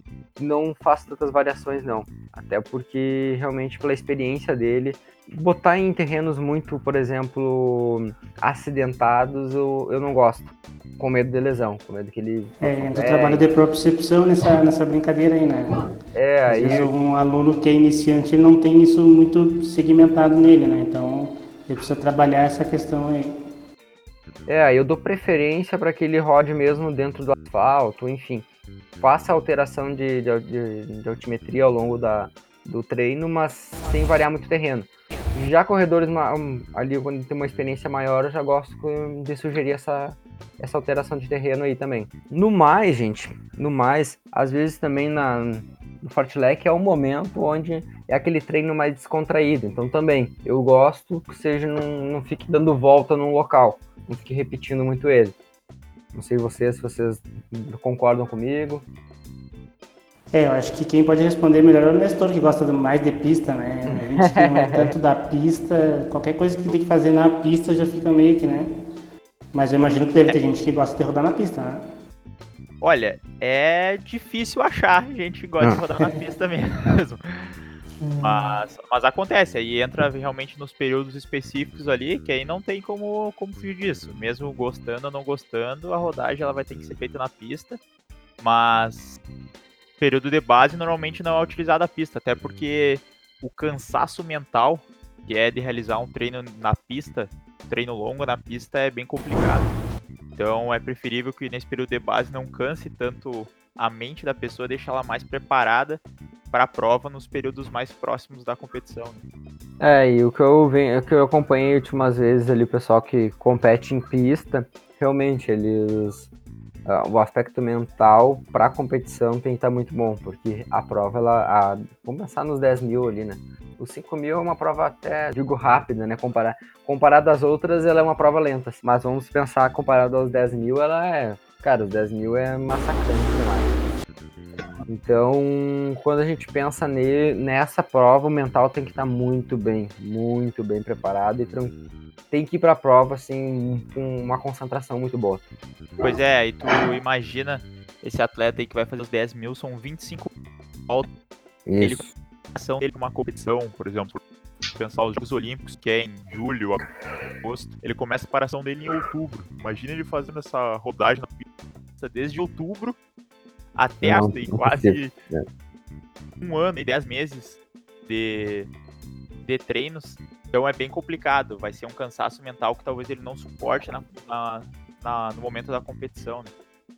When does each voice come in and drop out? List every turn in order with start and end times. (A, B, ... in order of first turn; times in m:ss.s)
0:00.4-0:13.4 A
0:12.6-0:15.8 B
0:16.1-0:16.9 A
0:16.5-0:23.3 B
0:24.5-0:28.5 A
0:29.0-0:55.4 A
0:56.1-0:58.8 A
1:00.3-1:08.7 B
1:03.9-1:04.9 A
1:09.5-1:11.8 B
1:12.8-1:17.6 C
1:18.0-1:18.4 B
1:18.2-1:27.8 C
1:28.4-1:29.2 C
1:30.0-1:39.8 C
1:40.3-1:46.0 C
1:46.5-1:49.2 C
1:49.8-1:56.3 A
1:56.8-2:13.8 A
2:14.8-2:21.8 A
2:22.3-2:25.4 A
2:26.0-2:30.3 C
2:31.7-2:32.1 A
2:31.8-2:41.4 C
2:42.0-2:43.0 C
2:43.7-2:45.1 C
2:44.0-2:45.4 A
2:46.4-2:48.7 C
2:49.4-2:56.5 C